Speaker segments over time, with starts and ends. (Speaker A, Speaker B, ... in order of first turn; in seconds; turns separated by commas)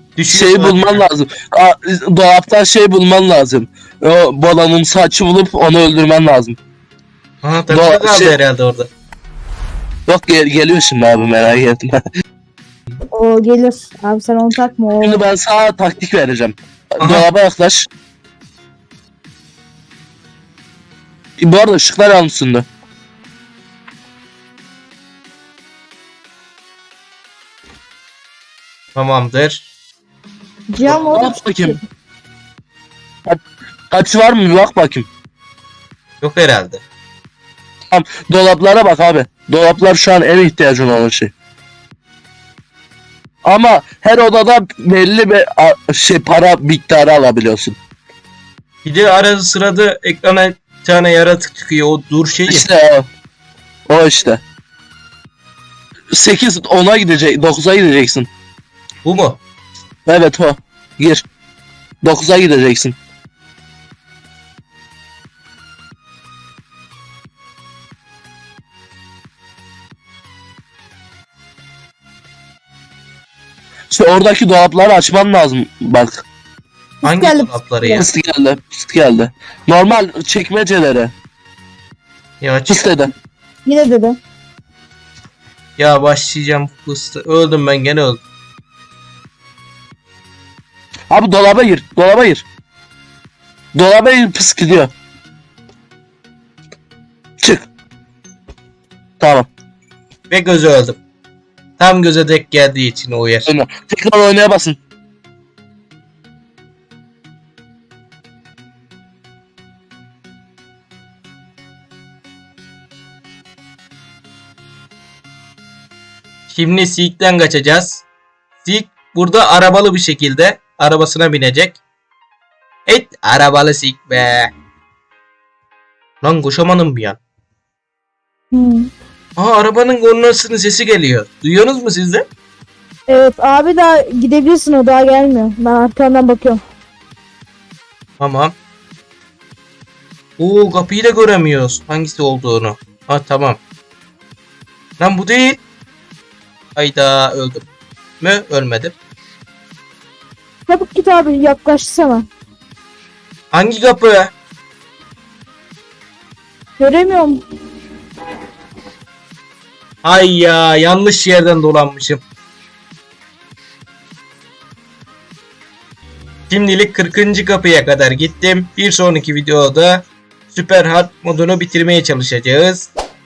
Speaker A: 0.2-1.0, Speaker B: 0.3-6.6, Speaker A: 7.4-8.9, Speaker B: 7.7-8.4, Speaker B: 10.1-12.0, Speaker C: 13.1-15.2, Speaker B: 15.0-17.9, Speaker A: 17.0-17.2, Speaker B: 21.4-22.7, Speaker A: 28.9-29.7, Speaker C: 30.7-31.8, Speaker B: 30.8-31.8, Speaker B: 33.9-35.1, Speaker A: 36.2-36.8, Speaker B: 37.9-41.3, Speaker B: 43.5-47.8, Speaker A: 48.9-52.7, Speaker B: 52.5-53.1, Speaker B: 53.9-54.4, Speaker B: 56.1-58.3, Speaker A: 59.0-59.4, Speaker B: 60.1-61.2, Speaker B: 62.0-63.0, Speaker B: 73.9-76.2, Speaker C: 77.0-78.0, Speaker A: 77.0-78.1, Speaker B: 77.9-81.1, Speaker A: 82.4-82.9, Speaker B: 82.7-83.1, Speaker C: 83.7-84.2, Speaker A: 85.8-88.2, Speaker B: 91.1-92.5, Speaker B: 93.8-94.9, Speaker B: 97.4-97.7, Speaker B: 99.2-99.5, Speaker A: 100.3-101.0, Speaker A: 101.8-103.5, Speaker B: 103.5-104.8, Speaker A: 116.5-118.0, Speaker A: 118.6-121.8, Speaker A: 122.9-124.5, Speaker A: 126.2-127.2, Speaker C: 128.5-128.9, Speaker A: 129.4-132.2, Speaker C: 133.1-136.6, Speaker A: 138.2-138.5, Speaker A: 140.4-143.6, Speaker A: 145.0-145.6, Speaker A: 146.8-147.7, Speaker A: 148.2-148.9, Speaker C: 150.7-152.3, Speaker A: 153.5-154.3, Speaker C: 156.8-157.4, Speaker A: 160.0-162.2, Speaker A: 166.5-172.9